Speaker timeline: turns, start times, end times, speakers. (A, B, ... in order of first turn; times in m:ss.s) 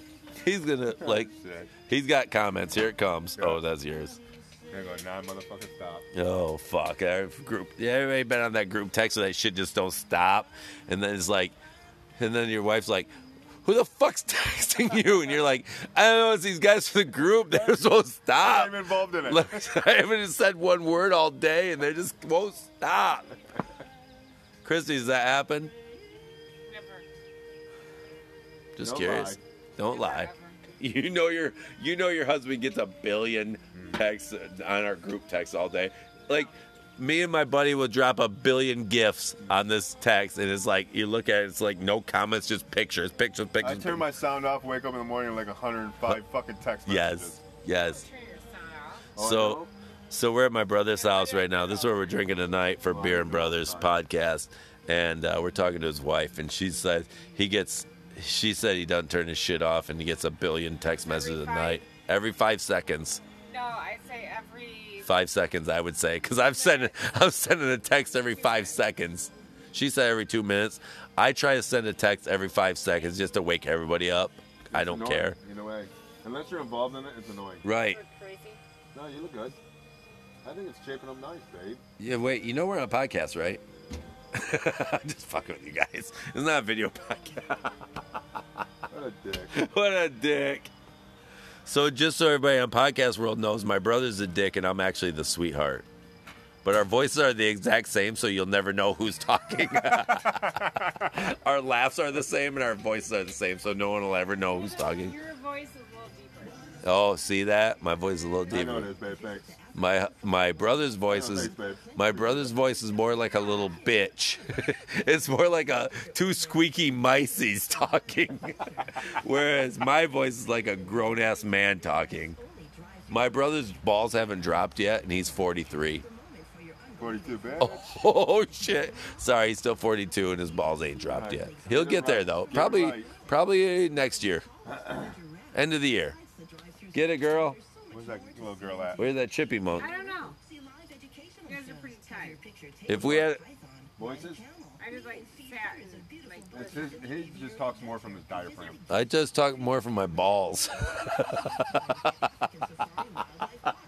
0:00.4-0:04.2 A
0:01.0-0:01.7 B
0:03.4-0:03.6 B
0:04.7-0:06.1 B
0:06.1-0:11.6 A
0:12.2-0:13.1 A
0:13.6-0:23.3 A
0:17.4-0:17.8 B
0:18.4-0:19.7 B
0:24.6-0:25.7 A
0:26.7-0:27.0 C
0:28.8-0:44.1 A
0:28.8-0:29.4 B
0:29.8-0:30.6 C
0:33.7-0:34.0 B
0:43.6-0:47.4 B
0:46.9-0:48.1 A
0:47.7-0:49.1 C
0:49.1-0:49.7 B
0:49.2-1:03.2 A
0:50.9-0:52.3 C
0:52.9-0:53.9 B
1:01.0-1:01.9 C
1:03.4-1:05.1 C
1:05.0-1:15.4 A
1:06.4-1:07.1 C
1:08.0-1:08.8 C
1:14.7-1:17.7 B
1:17.6-1:18.0 A
1:17.7-1:18.6 C
1:18.9-1:19.6 B
1:20.4-1:21.8 B
1:22.0-1:23.6 A
1:24.3-1:28.4 A
1:28.9-1:29.6 B
1:29.5-1:30.7 A
1:31.6-1:35.9 A
1:36.6-1:45.1 A
1:40.4-1:41.1 B
1:44.4-1:46.8 C
1:46.8-1:48.9 A
1:48.5-1:49.6 B
1:49.8-2:02.4 A
1:51.1-1:52.5 B
2:03.1-2:06.1 A
2:07.0-2:07.8 B
2:07.6-2:14.4 A
2:11.1-2:13.1 B
2:14.7-2:15.2 B
2:15.5-2:16.2 A
2:16.9-2:17.6 A
2:17.9-2:19.0 B
2:19.0-2:19.9 A
2:19.8-2:20.4 C
2:21.4-2:22.4 C
2:22.9-2:23.4 A
2:23.0-2:23.3 B
2:24.0-2:24.4 B
2:24.8-2:27.0 C
2:26.5-2:28.8 B
2:28.9-2:32.5 A